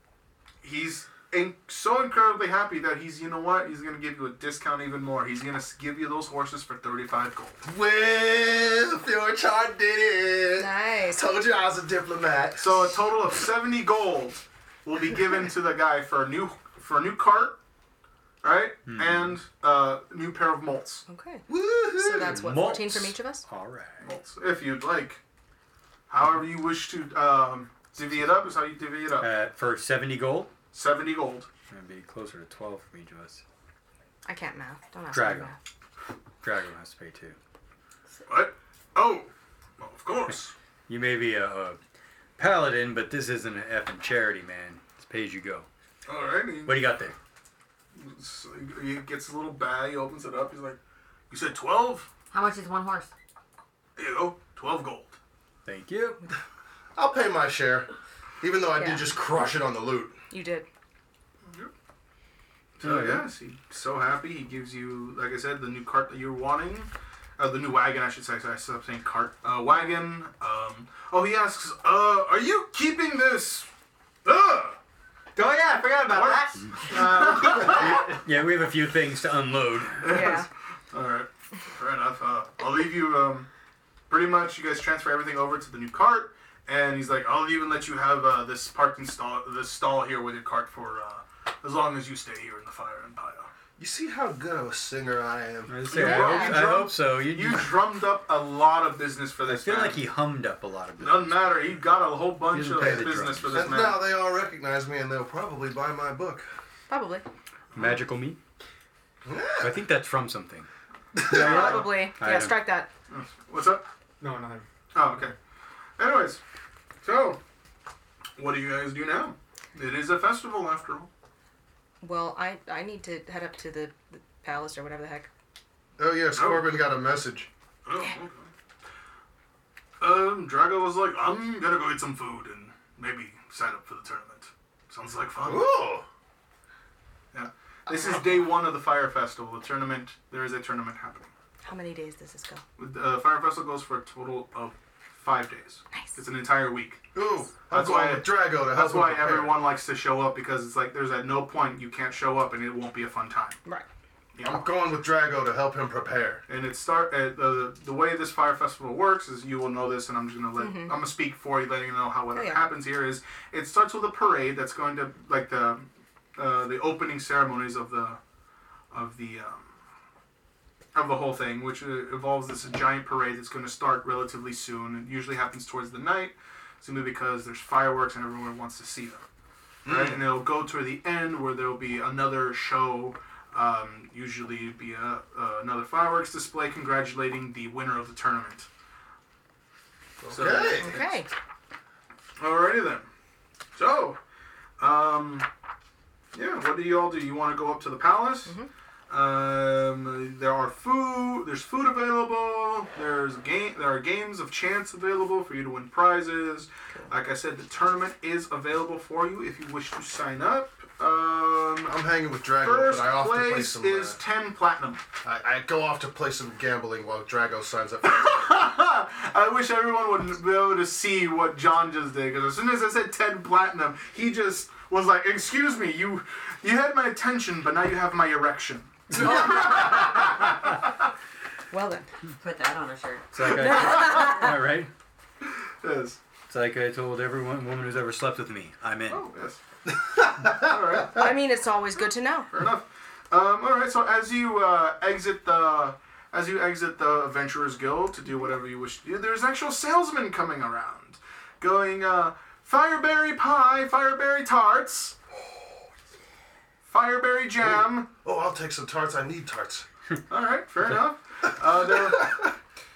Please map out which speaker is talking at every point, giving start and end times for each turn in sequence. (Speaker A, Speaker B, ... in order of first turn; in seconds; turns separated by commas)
Speaker A: 0.6-7.6, Speaker B: 7.6-12.8, Speaker C: 10.6-11.2, Speaker A: 12.6-17.6, Speaker A: 18.4-21.0, Speaker D: 18.9-19.3, Speaker C: 21.1-23.4, Speaker B: 21.5-22.4, Speaker D: 22.2-24.0, Speaker A: 24.0-25.2, Speaker A: 26.1-29.3, Speaker D: 29.2-30.5, Speaker A: 30.7-31.5, Speaker D: 31.7-33.4, Speaker C: 34.2-35.5, Speaker D: 35.1-35.5, Speaker D: 36.4-37.4, Speaker A: 38.3-40.5, Speaker D: 40.9-41.8, Speaker D: 42.4-45.7, Speaker A: 46.1-46.8, Speaker D: 46.6-47.1, Speaker A: 47.9-50.8, Speaker A: 51.3-52.1, Speaker E: 52.3-53.1, Speaker A: 54.0-55.2, Speaker D: 55.6-56.2, Speaker B: 57.0-57.9, Speaker B: 58.4-60.1, Speaker C: 58.8-59.0, Speaker C: 60.3-60.6, Speaker A: 62.8-73.7, Speaker B: 62.8-63.2, Speaker D: 62.8-63.2, Speaker A: 74.2-74.8, Speaker F: 75.3-78.3, Speaker A: 76.0-78.0, Speaker D: 77.5-80.2, Speaker A: 80.0-83.5, Speaker C: 80.1-80.5, Speaker A: 84.1-93.5, Speaker B: 93.8-95.8, Speaker D: 95.7-97.8, Speaker A: 95.9-100.0, Speaker C: 95.9-96.6, Speaker D: 99.5-101.7, Speaker A: 101.0-104.0, Speaker D: 102.5-103.8, Speaker B: 102.8-106.5, Speaker C: 106.9-107.2, Speaker A: 107.7-108.0, Speaker D: 107.7-108.4, Speaker B: 109.2-109.8, Speaker D: 109.6-110.7, Speaker B: 111.1-111.8, Speaker C: 111.3-112.9, Speaker A: 111.3-111.9, Speaker D: 111.4-112.6, Speaker A: 113.1-113.8, Speaker F: 114.2-114.7, Speaker A: 114.9-115.3, Speaker A: 116.0-116.4, Speaker A: 117.0-117.4, Speaker A: 118.4-121.1, Speaker C: 122.0-125.3, Speaker B: 126.0-127.5, Speaker A: 126.3-126.7, Speaker A: 127.8-128.5, Speaker A: 130.0-135.7, Speaker B: 135.4-136.0, Speaker A: 137.3-141.3, Speaker C: 137.9-138.5, Speaker C: 141.6-142.6, Speaker A: 142.8-147.0, Speaker C: 145.9-146.2, Speaker B: 147.1-149.6, Speaker A: 147.7-153.6, Speaker A: 154.3-154.7, Speaker B: 154.4-156.4, Speaker A: 156.5-168.2, Speaker C: 160.6-161.0, Speaker C: 162.3-162.7, Speaker A: 168.9-169.7, Speaker A: 170.9-179.2, Speaker B: 179.8-180.2, Speaker A: 179.8-188.7, Speaker B: 190.2-191.0, Speaker A: 190.3-191.2, Speaker C: 190.8-191.3, Speaker A: 192.4-193.1, Speaker A: 193.8-194.2, Speaker A: 194.8-195.5, Speaker A: 196.3-198.5, Speaker A: 199.1-211.9, Speaker B: 211.8-214.2, Speaker A: 212.6-215.0, Speaker B: 215.2-218.3, Speaker A: 218.0-230.8, Speaker C: 229.2-230.0, Speaker C: 231.7-232.1, Speaker E: 232.4-234.3, Speaker D: 233.3-234.9, Speaker C: 233.4-234.5, Speaker A: 235.8-236.2, Speaker D: 236.5-239.3, Speaker A: 239.1-239.6, Speaker A: 240.4-241.3, Speaker C: 241.1-242.5, Speaker A: 242.5-255.2, Speaker A: 256.9-258.1, Speaker B: 257.6-259.8, Speaker A: 260.3-262.5, Speaker B: 261.8-262.5